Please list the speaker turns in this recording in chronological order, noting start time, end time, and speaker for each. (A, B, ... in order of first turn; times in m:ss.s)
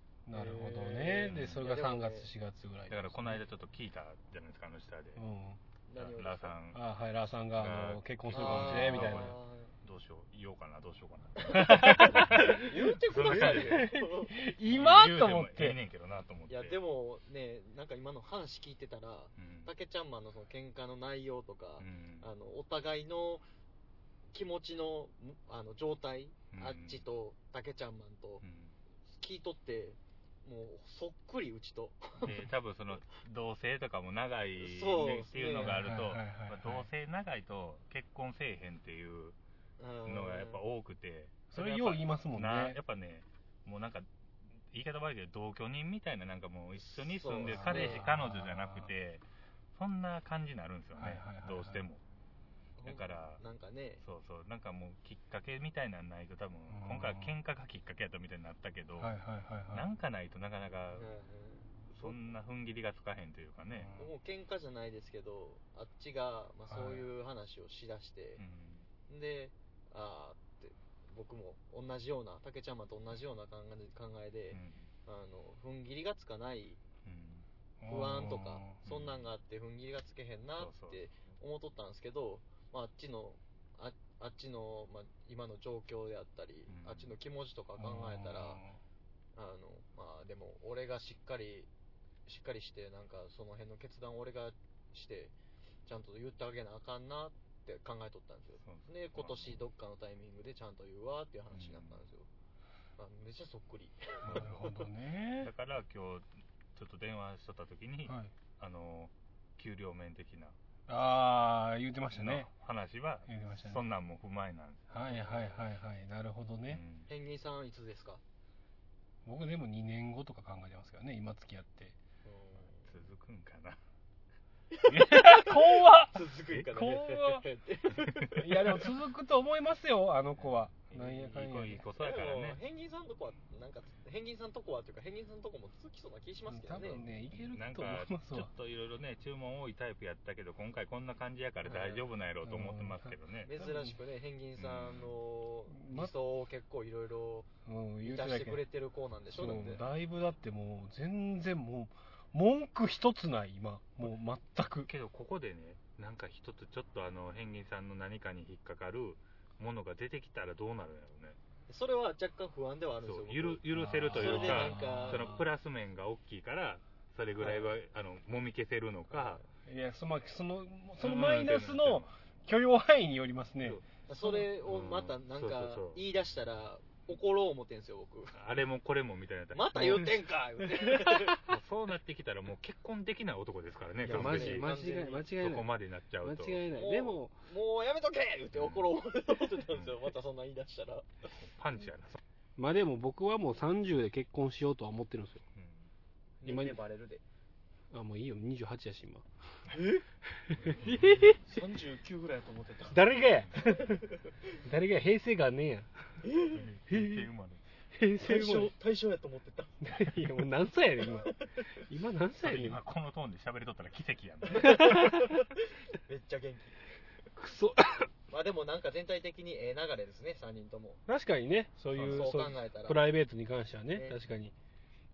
0:00.3-0:03.4 A
0:00.3-0:02.3 B
0:01.3-0:01.7 C
0:02.9-0:05.2 C
0:05.2-0:05.6 A
0:05.9-0:06.6 B
0:06.0-0:06.8 C
0:06.7-0:09.3 A
0:07.5-0:13.9 C
0:08.3-0:09.7 B
0:11.4-0:14.4 B
0:11.5-0:15.8 A
0:14.6-0:16.8 C
0:16.5-0:23.4 B
0:19.4-0:19.7 C
0:21.8-0:22.3 C
0:24.3-0:28.4 B
0:26.5-0:27.0 C
0:28.4-0:28.8 C
0:29.1-0:32.4 B
0:32.2-0:39.4 C
0:34.6-0:35.8 B
0:35.5-0:36.9 A
0:39.8-0:40.6 B
0:40.0-0:44.1 C
0:41.5-0:42.8 A
0:44.7-0:52.0 C
0:46.8-0:48.0 B
0:47.5-0:48.9 A
0:51.0-0:51.8 A
0:52.8-0:54.0 B
0:52.8-0:53.4 C
0:54.0-0:59.1 C
0:56.7-0:57.3 A
0:59.0-0:59.9 A
0:59.7-1:01.1 C
1:00.9-1:02.2 B
1:01.9-1:03.9 C
1:03.7-1:04.1 A
1:04.0-1:08.4 B
1:06.7-1:07.0 A
1:08.4-1:08.9 C
1:09.1-1:16.8 B
1:14.5-1:14.9 C
1:17.0-1:17.5 C
1:17.8-1:18.8 A
1:17.9-1:28.6 B
1:18.8-1:19.3 C
1:20.6-1:21.4 C
1:26.7-1:27.1 C
1:27.8-1:28.8 A
1:29.4-1:31.7 B
1:32.2-1:35.3 B
1:35.8-1:42.3 B
1:38.6-1:39.6 C
1:41.5-1:42.1 C
1:43.0-1:44.8 B
1:44.2-1:44.6 C
1:44.2-1:45.5 A
1:45.4-1:50.6 C
1:48.1-1:48.3 A
1:50.9-1:52.5 A
1:52.1-1:55.0 C
1:53.3-1:53.8 A
1:54.9-1:56.8 A
1:55.0-1:55.6 B
1:56.7-1:57.1 C
1:57.1-1:58.2 B
1:59.2-2:02.0 A
2:02.2-2:02.9 B
2:02.8-2:03.8 C
2:04.7-2:08.8 B
2:04.9-2:07.4 A
2:08.3-2:11.8 A
2:10.4-2:12.6 C
2:12.0-2:17.0 B
2:16.5-2:18.5 A
2:17.3-2:23.5 C
2:21.6-2:22.1 B
2:22.4-2:23.9 A
2:23.4-2:27.5 B
2:24.6-2:25.2 C
2:25.7-2:26.1 A
2:27.6-2:28.6 A
2:28.0-2:29.8 B
2:29.3-2:34.9 A
2:34.8-2:41.4 C
2:41.7-2:45.4 B
2:43.0-2:49.4 C
2:43.7-2:45.4 A
2:49.1-2:49.5 B
2:49.6-2:53.8 A
2:51.0-2:52.1 C
2:53.6-2:53.8 C
2:54.1-2:58.4 B
2:54.6-2:56.0 C
2:58.3-3:00.1 C
2:59.5-3:01.5 B
2:59.8-3:00.1 A
3:00.9-3:01.3 A
3:01.4-3:04.8 C
3:04.0-3:05.7 A
3:04.0-3:05.3 B
3:05.4-3:06.6 C
3:06.2-3:07.3 A
3:06.7-3:11.3 B
3:08.5-3:08.9 C
3:09.7-3:10.0 C
3:11.4-3:12.2 C
3:12.6-3:15.4 A
3:15.5-3:15.9 C
3:16.4-3:17.2 B
3:16.4-3:16.8 A
3:17.9-3:19.2 A
3:19.7-3:20.0 B
3:20.3-3:21.4 A
3:20.6-3:21.3 C
3:21.4-3:24.0 B
3:22.9-3:24.0 A
3:24.6-3:26.1 A
3:26.2-3:26.6 B
3:26.5-3:27.6 C
3:26.9-3:27.3 A
3:27.9-3:28.7 A
3:28.2-3:30.1 B
3:29.8-3:32.8 A
3:31.2-3:31.5 B
3:32.4-3:35.1 C
3:34.5-3:36.8 B
3:34.6-3:35.3 A
3:37.4-3:38.1 A
3:38.3-3:41.0 B
3:41.1-3:44.5 A
3:41.9-3:42.3 C
3:42.0-3:43.0 B
3:43.9-3:44.2 B